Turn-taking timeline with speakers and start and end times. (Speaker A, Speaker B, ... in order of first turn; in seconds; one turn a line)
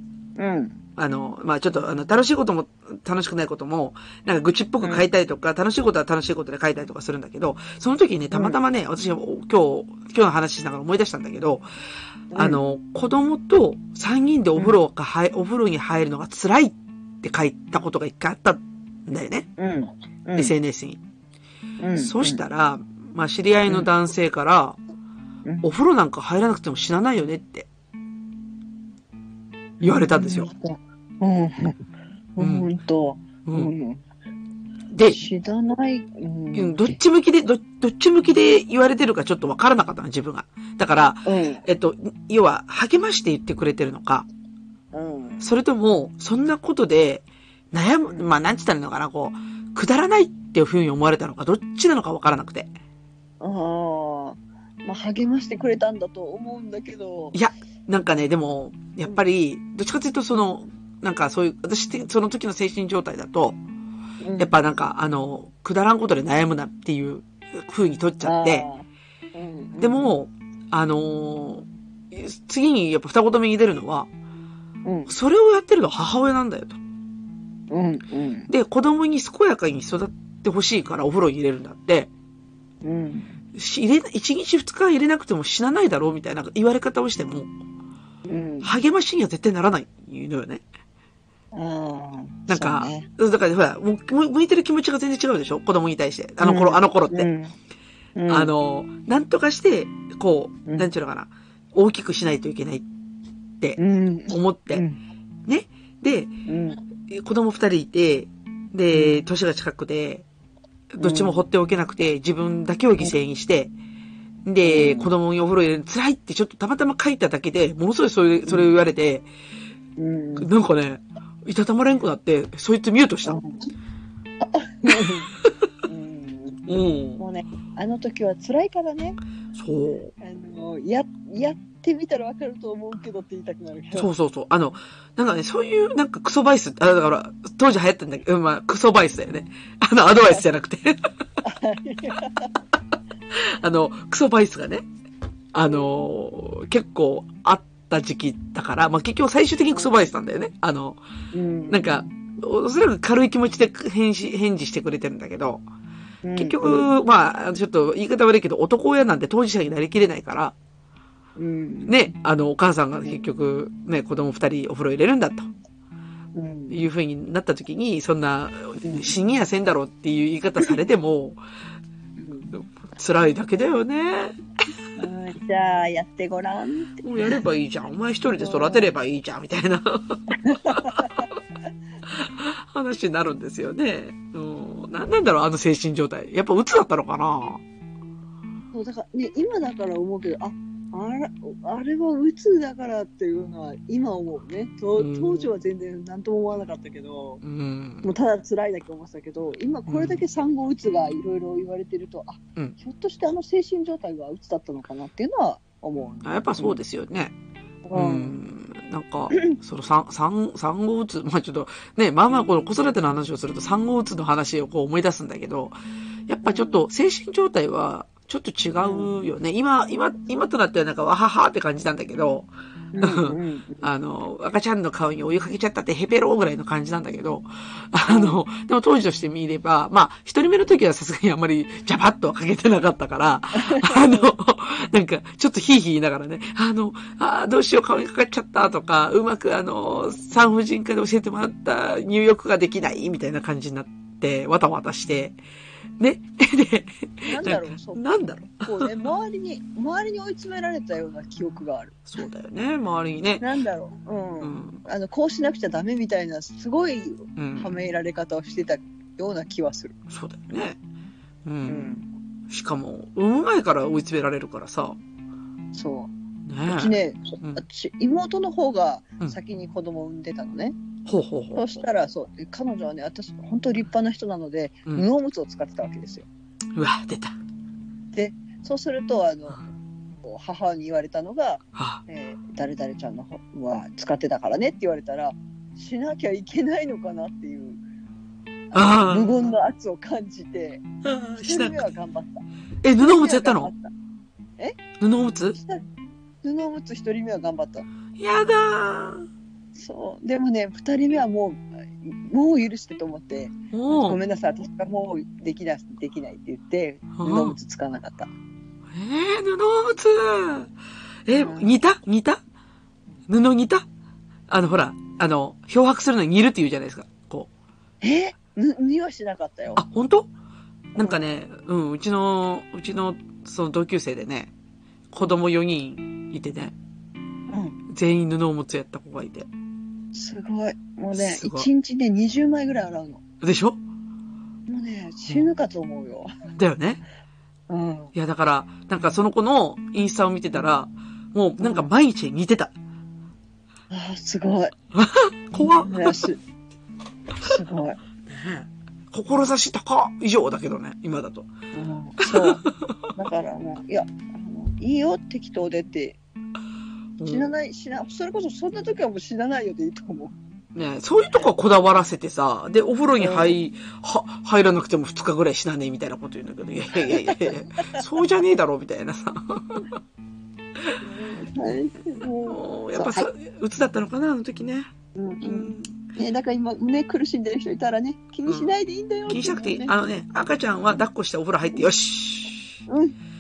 Speaker A: 0.4-0.8
Speaker B: 1.0-11.7
Speaker A: 8.3-8.6
Speaker A: 12.3-12.6
Speaker B: 12.3-19.5
Speaker A: 19.6-20.5
Speaker B: 20.4-21.0
Speaker A: 21.8-22.4
Speaker B: 22.0-24.8
Speaker A: 25.4-25.7
Speaker B: 25.6-27.7
Speaker B: 29.8-30.5
Speaker A: 29.8-31.9
Speaker A: 32.4-34.0
Speaker B: 32.4-32.7
Speaker B: 33.5-33.7
Speaker B: 34.9-35.2
Speaker A: 35.1-37.0
Speaker B: 36.5-44.3
Speaker A: 41.2-41.6
Speaker A: 44.9-45.5
Speaker B: 45.4-52.7
Speaker A: 53.4-57.4
Speaker B: 57.3-63.6
Speaker A: 64.2-64.5
Speaker B: 64.4-68.7
Speaker A: 68.2-70.1
Speaker B: 69.8-74.1
Speaker A: 74.8-75.1
Speaker B: 75.1-76.8
Speaker A: 77.7-78.5
Speaker B: 78.5-82.1
Speaker A: 82.8-83.4
Speaker B: 83.5-87.5
Speaker A: 88.3-88.7
Speaker B: 88.6-90.6
Speaker A: 91.5-93.1
Speaker B: 92.5-97.3
Speaker A: 96.4-97.5
Speaker A: 98.2-98.5
Speaker B: 98.3-102.8
Speaker B: 103.6-104.8
Speaker A: 103.8-105.0
Speaker B: 105.5-106.3
Speaker A: 106.5-106.8
Speaker B: 107.1-110.2
Speaker A: 108.9-109.2
Speaker B: 110.9-113.7
Speaker A: 111.0-111.5
Speaker B: 114.5-119.3
Speaker A: 114.6-115.1
Speaker A: 118.5-118.7
Speaker A: 120.0-120.5
Speaker B: 120.4-123.4
Speaker A: 123.3-123.7
Speaker A: 124.4-126.7
Speaker B: 125.0-125.7
Speaker B: 126.7-127.2
Speaker A: 127.2-129.2
Speaker B: 129.6-130.1
Speaker A: 130.2-134.1
Speaker B: 133.9-141.1
Speaker A: 141.4-142.6
Speaker B: 143.3-144.9
Speaker B: 145.5-151.0
Speaker A: 151.3-151.9
Speaker B: 151.7-155.6
Speaker A: 156.2-156.9
Speaker B: 156.4-160.6
Speaker A: 161.4-161.9
Speaker B: 161.9-165.5
Speaker A: 166.3-166.8
Speaker B: 166.7-171.4
Speaker A: 168.8-169.1
Speaker A: 172.2-172.5
Speaker B: 172.5-174.3
Speaker A: 175.0-177.4
Speaker B: 177.0-181.2
Speaker A: 178.4-178.9
Speaker A: 180.4-181.3
Speaker B: 182.1-187.6
Speaker A: 188.7-197.4
Speaker B: 195.0-195.5
Speaker B: 197.4-198.1
Speaker A: 198.0-206.8
Speaker B: 199.9-200.2
Speaker B: 206.2-207.3
Speaker A: 207.8-208.4
Speaker B: 207.9-222.5
Speaker A: 216.4-216.8
Speaker A: 218.8-219.1
Speaker A: 222.9-223.9
Speaker B: 223.0-245.4
Speaker A: 228.1-228.4
Speaker A: 233.6-234.3
Speaker B: 246.0-249.1
Speaker A: 247.2-252.0
Speaker B: 252.1-253.5
Speaker A: 253.4-259.9
Speaker B: 254.4-254.8
Speaker B: 257.4-257.7
Speaker B: 260.1-260.8
Speaker B: 261.4-265.0
Speaker A: 261.6-262.1
Speaker A: 265.7-266.1
Speaker B: 266.5-267.6
Speaker A: 266.7-270.8
Speaker B: 271.1-271.7
Speaker A: 271.6-276.3
Speaker B: 276.8-277.4
Speaker A: 278.1-279.6
Speaker A: 280.2-287.8
Speaker B: 281.8-282.0
Speaker A: 288.7-290.9
Speaker B: 288.7-289.5
Speaker B: 291.0-291.9
Speaker A: 291.4-292.4
Speaker B: 292.8-293.7
Speaker A: 293.0-293.9
Speaker B: 295.0-295.6
Speaker A: 295.5-295.9
Speaker A: 296.4-297.9
Speaker B: 298.2-299.3
Speaker A: 299.8-308.3
Speaker B: 303.7-304.2
Speaker B: 307.2-307.6
Speaker B: 308.9-310.7
Speaker B: 311.3-312.4
Speaker A: 311.3-311.8
Speaker B: 313.3-313.9
Speaker B: 314.5-317.5
Speaker A: 318.0-319.8
Speaker B: 319.8-320.3
Speaker B: 321.0-324.5
Speaker B: 325.1-326.7
Speaker A: 327.5-327.8
Speaker B: 327.9-329.5
Speaker A: 330.1-333.2
Speaker B: 331.1-331.7
Speaker B: 333.4-333.8
Speaker A: 334.7-336.3
Speaker B: 336.6-337.0
Speaker A: 337.7-338.1
Speaker B: 338.1-342.7
Speaker A: 341.6-341.9
Speaker A: 343.9-344.7
Speaker B: 344.9-346.3
Speaker A: 345.5-346.4
Speaker A: 347.4-348.0
Speaker B: 348.3-351.5
Speaker A: 351.7-356.2
Speaker B: 352.2-352.6
Speaker B: 357.2-357.5
Speaker A: 357.2-360.4
Speaker B: 360.7-369.9
Speaker A: 363.2-363.6
Speaker A: 366.9-368.0
Speaker B: 370.9-371.4
Speaker A: 371.0-373.3
Speaker B: 372.4-376.0
Speaker A: 375.1-379.9
Speaker B: 378.5-378.8
Speaker B: 379.3-382.8
Speaker A: 382.9-383.2